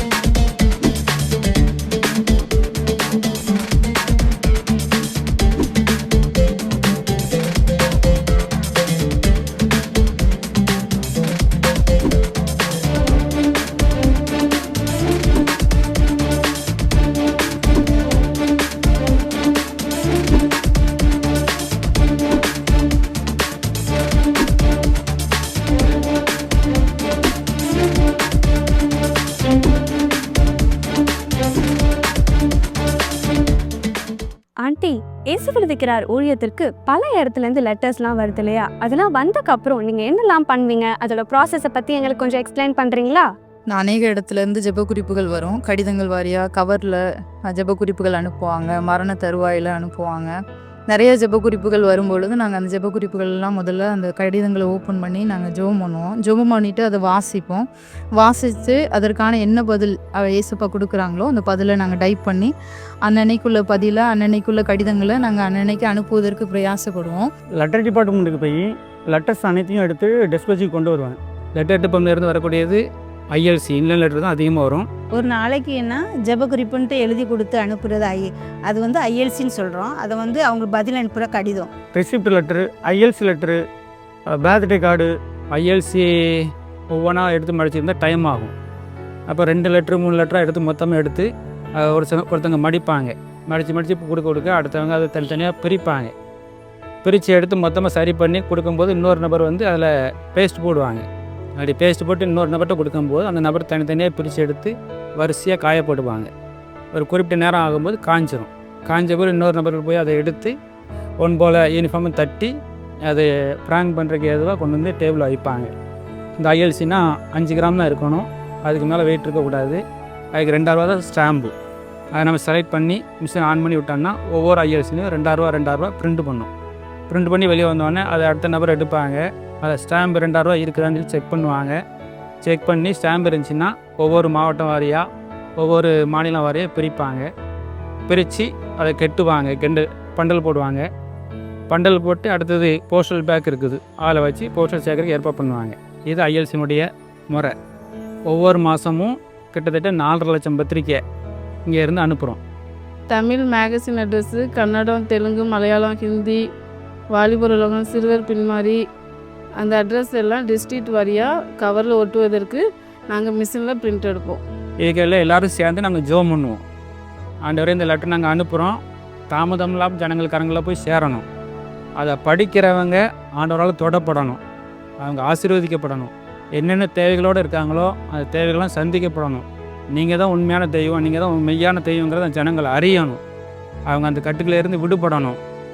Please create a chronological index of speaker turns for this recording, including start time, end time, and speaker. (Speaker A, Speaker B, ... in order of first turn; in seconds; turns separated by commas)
Speaker A: 34.6-43.3, Speaker B: 43.7-50.3, Speaker B: 50.9-57.6, Speaker B: 58.2-62.5, Speaker B: 63.0-67.3, Speaker C: 67.6-71.2, Speaker D: 71.5-74.9, Speaker E: 75.2-81.7, Speaker C: 81.9-83.6, Speaker C: 84.2-85.2, Speaker D: 85.5-88.5, Speaker D: 89.3-91.3, Speaker D: 91.8-96.1, Speaker D: 97.0-101.0, Speaker D: 101.6-106.3, Speaker D: 106.9-110.5, Speaker D: 111.2-112.5, Speaker D: 113.1-115.7, Speaker D: 116.4-119.8, Speaker D: 120.3-121.5, Speaker D: 122.2-126.5, Speaker D: 127.1-131.8, Speaker D: 132.4-135.1, Speaker D: 135.6-137.3, Speaker D: 138.1-140.8, Speaker D: 141.7-147.5, Speaker D: 148.3-151.0, Speaker D: 151.7-152.4, Speaker F: 153.1-156.4, Speaker F: 157.1-158.8, Speaker F: 159.6-164.4, Speaker D: 164.8-166.6, Speaker D: 167.4-171.2, Speaker D: 172.0-174.4, Speaker D: 175.0-183.2, Speaker D: 183.9-185.4